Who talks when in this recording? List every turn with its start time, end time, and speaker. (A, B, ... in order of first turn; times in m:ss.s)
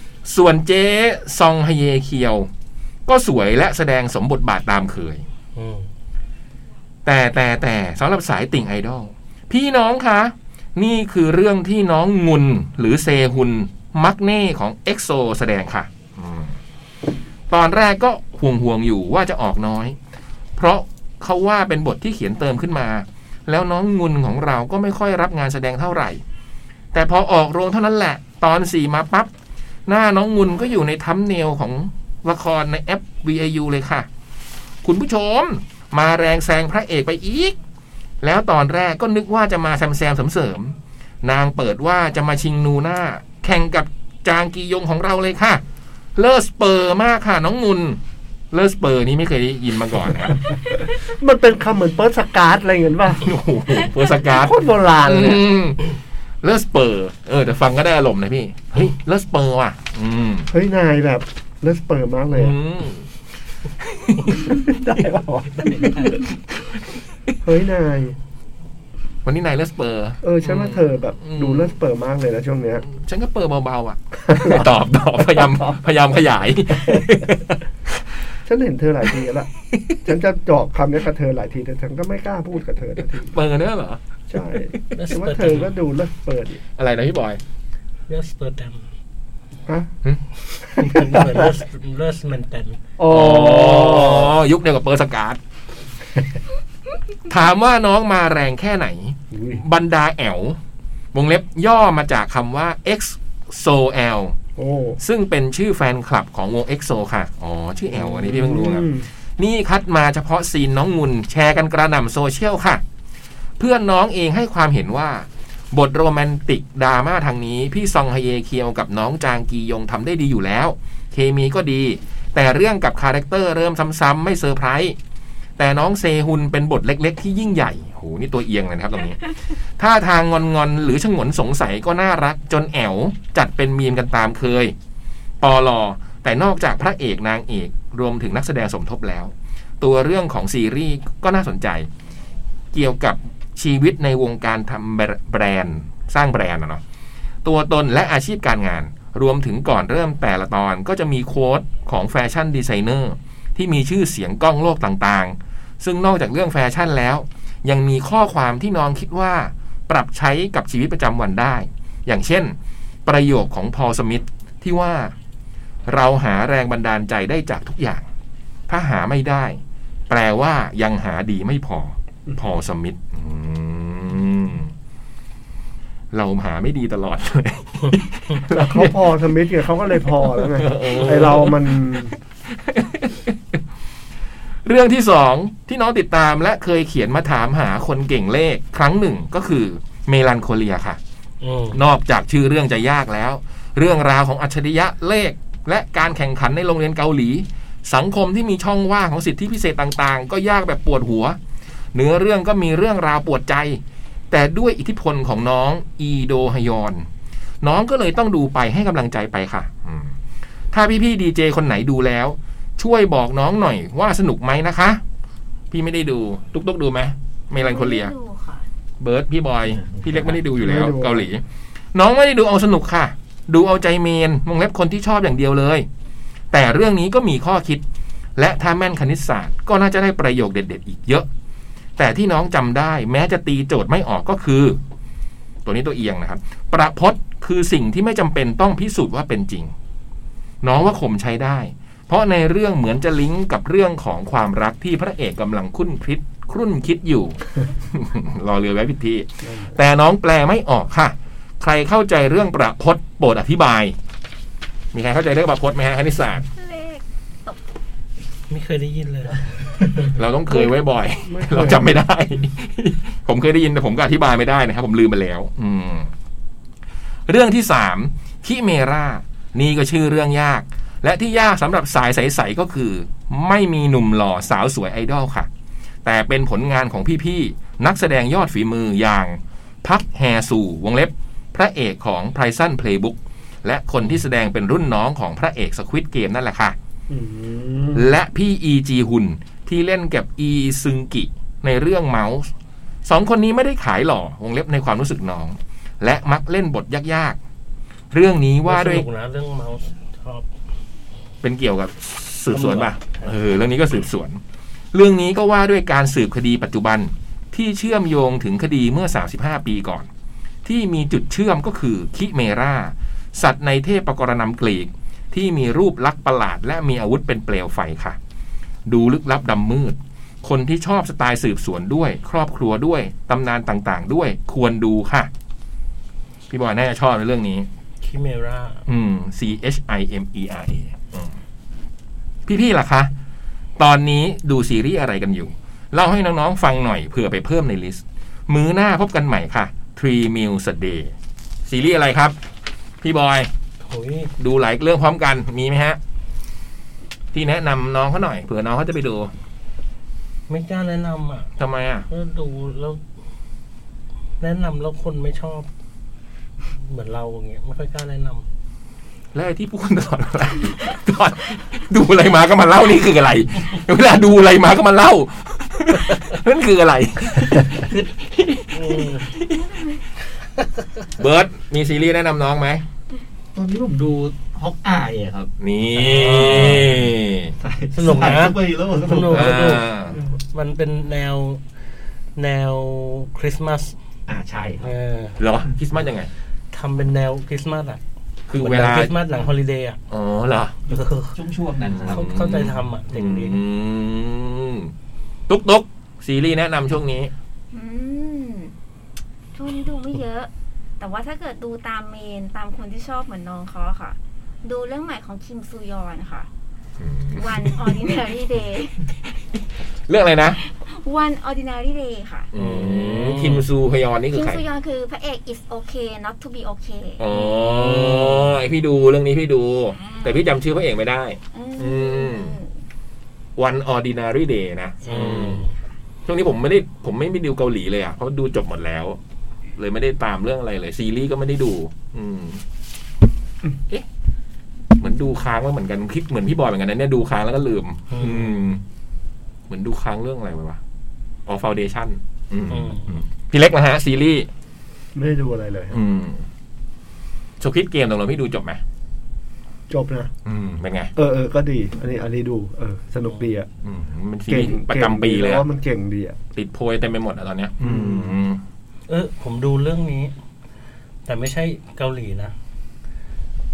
0:00.2-0:02.5 A
0:03.1-0:05.2 A
0:05.5-0:05.9 B
0:07.0-0:16.6 A
0:17.5-0:20.0 A
0:20.6-0:26.2 A
0:26.9-0:29.3 A
0:29.9-0:34.1 A
0:34.8-0:37.6 A
0:38.2-0:45.6 A
0:46.2-0:48.0 A
0:48.5-0:50.4 A
0:51.0-0:53.2 C
0:53.2-0:55.9 A
0:54.3-0:55.5 C
0:56.4-1:00.5 A
1:00.5-1:02.6 C
1:02.3-1:03.1 A
1:03.8-1:04.6 A
1:04.4-1:06.1 C
1:05.6-1:06.2 B
1:07.4-1:08.2 C
1:09.2-1:11.7 A
1:10.2-1:12.8 C
1:12.8-1:17.6 A
1:14.2-1:14.7 C
1:15.4-1:15.7 C
1:16.7-1:17.1 C
1:18.4-1:19.5 C
1:20.0-1:23.4 C
1:23.3-1:24.0 A
1:24.3-1:26.6 C
1:24.9-1:25.7 B
1:26.8-1:27.4 A
1:28.1-1:28.8 B
1:30.7-1:32.8 B
1:30.9-1:31.5 C
1:33.0-1:34.3 C
1:33.1-1:35.4 A
1:37.3-1:40.6 A
1:39.3-1:39.6 C
1:41.1-1:44.4 A
1:44.6-1:45.0 C
1:45.0-1:52.8 A
1:47.9-1:49.1 C
1:53.6-2:05.0 A
2:05.6-2:14.7 A
2:15.4-2:21.9 A
2:22.7-2:26.8 A
2:27.4-2:42.5 A
2:43.0-2:45.1 A
2:45.8-2:48.0 A
2:48.7-2:54.7 A
2:56.1-2:59.0 A
2:58.5-3:02.1 C
3:00.4-3:03.6 A
3:04.6-3:11.0 A
3:11.4-3:11.8 B
3:11.7-3:21.4 A
3:21.9-3:23.8 A
3:24.3-3:27.1 A
3:27.6-3:30.1 A
3:30.7-3:35.0 A
3:35.7-3:38.1 A
3:37.5-3:38.6 D
3:39.0-3:41.4 A
3:40.6-3:41.3 C
3:41.9-3:45.8 A
3:46.5-3:47.8 A
3:48.4-3:51.3 A
3:52.0-3:54.8 A
3:55.6-3:59.7 A
4:00.6-4:13.9 A
4:09.5-4:09.7 C
4:14.9-4:16.4 A
4:16.6-4:17.6 D
4:18.5-4:19.5 B
4:20.0-4:26.1 A
4:21.2-4:22.0 C
4:27.3-4:35.5 A
4:36.0-4:46.7 A
4:47.1-4:48.2 C
4:47.9-4:52.5 A
4:53.0-4:57.4 A
4:58.1-4:59.0 A
4:58.6-5:00.5 B
5:01.4-5:04.4 A
5:02.5-5:03.3 B
5:04.9-5:10.1 A
5:10.6-5:18.2 A
5:18.8-5:25.3 A
5:26.5-5:27.7 A
5:28.0-5:28.8 B
5:28.9-5:31.4 A
5:32.5-5:33.1 A
5:33.8-5:41.1 A
5:41.6-5:42.4 A
5:43.0-5:43.5 A
5:43.8-5:44.3 B
5:44.4-5:46.0 A
5:47.3-5:49.3 A
5:50.5-5:51.5 B
5:51.6-5:52.1 A
5:52.1-5:53.0 B
5:54.4-5:55.7 B
5:56.7-5:58.4 B
5:59.3-6:09.7 A
6:08.7-6:09.3 B
6:11.2-6:12.8 A
6:13.5-6:20.2 E
6:15.6-6:17.5 A
6:16.0-6:16.9 B
6:17.9-6:19.9 B
6:19.3-6:20.2 A
6:20.5-6:21.6 B
6:22.4-6:23.9 B
6:24.3-6:24.9 E
6:24.8-6:25.4 B
6:25.4-6:26.3 A
6:26.7-6:28.0 B
6:28.5-6:29.1 A
6:28.6-6:30.0 B
6:30.1-6:30.8 A
6:30.9-6:31.4 B
6:30.9-6:32.3 E
6:31.8-6:34.9 A
6:32.0-6:33.6 B
6:35.5-6:37.3 A
6:37.7-6:38.7 D
6:39.5-6:46.5 D
6:47.0-6:47.8 A
6:47.3-6:49.0 D
6:50.1-6:50.6 A
6:50.6-6:52.5 D
6:52.5-6:54.6 A
6:52.6-6:53.6 B
6:54.3-6:57.9 D
6:57.2-7:02.6 A
6:58.0-6:58.5 B
6:59.9-7:00.5 D
7:01.5-7:02.7 D
7:03.6-7:05.6 A
7:05.0-7:05.7 B
7:06.2-7:09.2 A
7:09.8-7:12.6 A
7:15.0-7:18.8 A
7:18.1-7:18.5 B
7:19.7-7:20.8 A
7:21.5-7:24.5 A
7:22.7-7:23.2 B
7:25.1-7:26.0 C
7:25.9-7:26.4 A
7:27.6-7:28.8 A
7:29.9-7:30.3 C
7:30.4-7:31.1 A
7:31.2-7:33.7 C
7:33.8-7:35.6 A
7:34.5-7:36.4 C
7:36.5-7:38.6 A
7:37.8-7:38.3 C
7:39.1-7:40.3 B
7:41.2-7:42.5 B